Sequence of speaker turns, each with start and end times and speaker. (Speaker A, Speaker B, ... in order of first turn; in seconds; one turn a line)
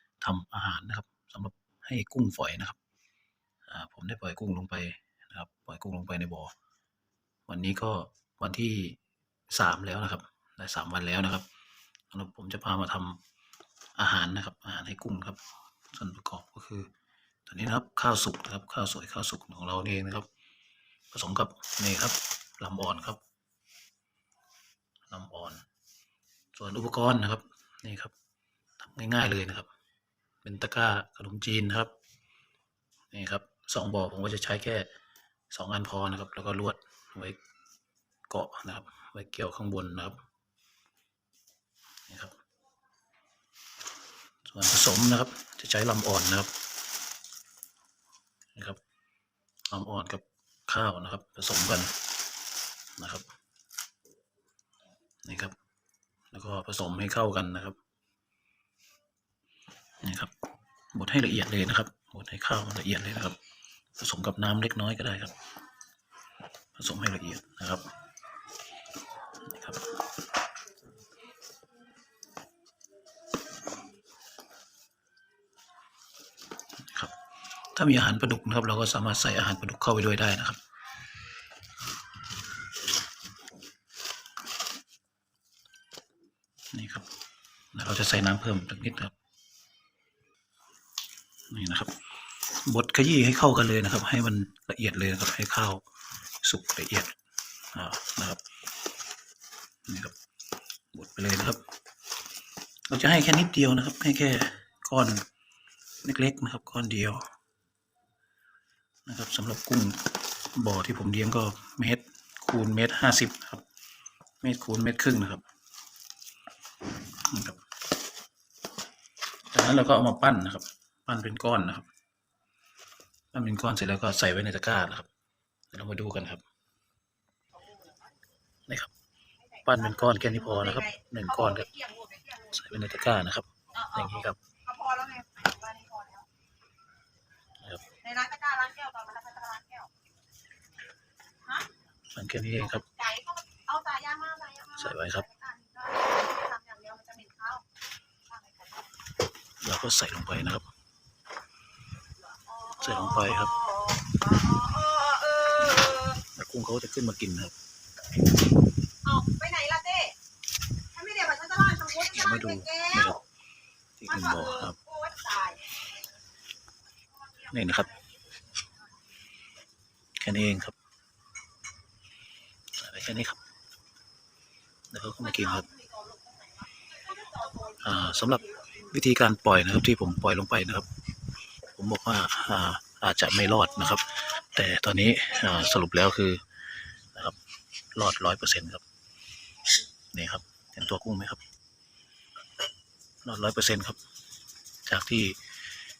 Speaker A: 0.2-2.8
Speaker A: 3.7-6.5
Speaker A: 7.5-11.4
Speaker A: 12.1-13.2
Speaker A: 14.0-16.9
Speaker A: 17.5-20.3
Speaker A: 21.1-23.2
Speaker A: 25.1-25.6
Speaker A: 26.5-28.1
Speaker A: 28.8-29.7
Speaker A: 30.4-31.9
Speaker A: 33.1-34.9
Speaker A: 35.5-37.4
Speaker A: 38.3-40.2
Speaker A: 42.1-42.4
Speaker A: 44.4-46.5
Speaker A: 49.7-51.9
Speaker A: 53.0-53.3
Speaker A: 55.2-55.5
Speaker A: 56.3-57.8
Speaker A: 60.0-60.3
Speaker A: 60.9-63.4
Speaker A: 64.0-65.3
Speaker A: 66.8-67.9
Speaker A: 69.4-69.8
Speaker A: 76.8-77.1
Speaker A: 77.7-80.6
Speaker A: 86.7-87.1
Speaker A: 87.7-89.1
Speaker A: 91.5-91.9
Speaker A: 92.5-95.8
Speaker A: 96.4-97.1
Speaker A: 97.7-98.4
Speaker A: 99.8-100.1
Speaker A: 100.9-101.6
Speaker A: 102.9-105.2
Speaker A: 106.0-107.3
Speaker A: 109.0-113.6
Speaker A: 114.4-115.4
Speaker A: 117.2-117.6
Speaker A: 119.5-121.9
Speaker A: 123.3-125.1
Speaker A: 125.7-126.4
Speaker B: 129.5-132.5
Speaker A: 129.6-131.7
Speaker A: 132.4-134.4
Speaker B: 133.8-136.3
Speaker A: 137.6-137.9
Speaker B: 138.0-139.9
Speaker A: 142.1-142.8
Speaker B: 142.8-147.6
Speaker A: 144.7-145.2
Speaker B: 148.3-148.8
Speaker A: 149.6-150.7
Speaker B: 152.5-156.2
Speaker A: 152.8-153.5
Speaker A: 156.2-157.5
Speaker B: 159.0-160.2
Speaker B: 160.9-163.2
Speaker A: 162.1-163.2
Speaker A: 164.0-164.8
Speaker B: 164.1-165.8
Speaker A: 167.5-167.9
Speaker A: 170.2-170.8
Speaker A: 172.7-173.4
Speaker A: 174.9-175.7
Speaker B: 175.6-177.8
Speaker A: 177.8-180.9
Speaker A: 181.7-186.4
Speaker A: 187.9-188.8
Speaker A: 190.1-191.4
Speaker A: 193.2-194.0
Speaker A: 194.8-195.4